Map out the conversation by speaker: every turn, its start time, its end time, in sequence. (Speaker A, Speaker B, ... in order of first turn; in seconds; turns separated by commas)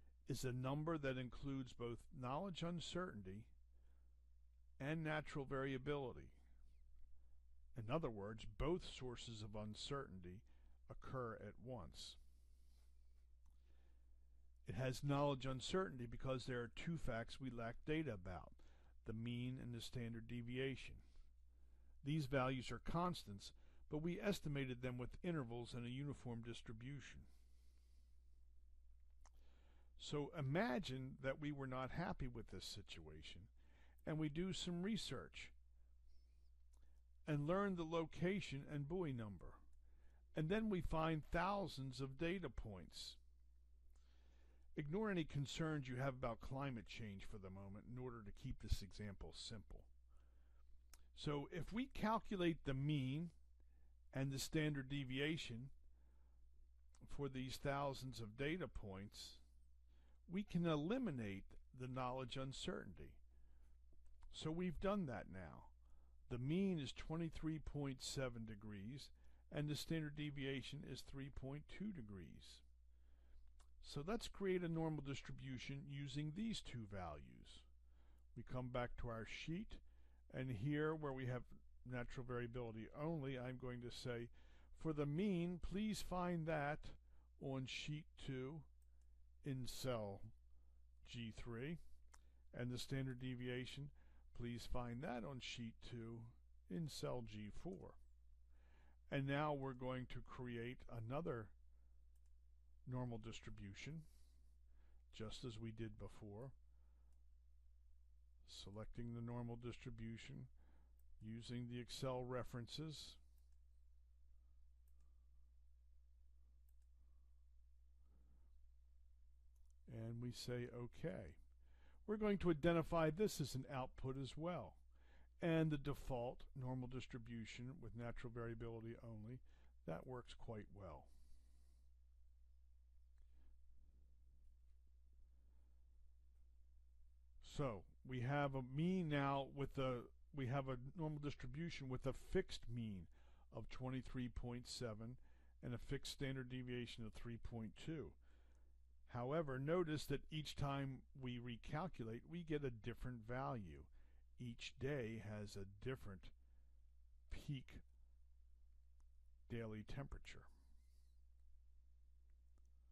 Speaker A: 0.3-3.5, Speaker A: 4.8-6.4, Speaker A: 7.7-12.2, Speaker A: 14.6-21.0, Speaker A: 22.0-27.3, Speaker A: 30.0-33.5, Speaker A: 34.0-35.5, Speaker A: 37.2-39.6, Speaker A: 40.3-43.2, Speaker A: 44.7-49.9, Speaker A: 51.1-53.3, Speaker A: 54.1-55.7, Speaker A: 57.0-59.4, Speaker A: 60.3-63.2, Speaker A: 64.3-65.7, Speaker A: 66.3-72.6, Speaker A: 73.8-77.7, Speaker A: 78.3-88.7, Speaker A: 89.4-90.3, Speaker A: 91.0-91.8, Speaker A: 92.5-98.0, Speaker A: 99.1-101.5, Speaker A: 102.8-104.1, Speaker A: 105.1-106.5, Speaker A: 108.4-110.5, Speaker A: 111.2-113.2, Speaker A: 119.9-121.4, Speaker A: 122.0-124.8, Speaker A: 125.4-131.1, Speaker A: 137.4-148.2, Speaker A: 149.1-156.3, Speaker A: 157.3-157.8, Speaker A: 159.5-160.5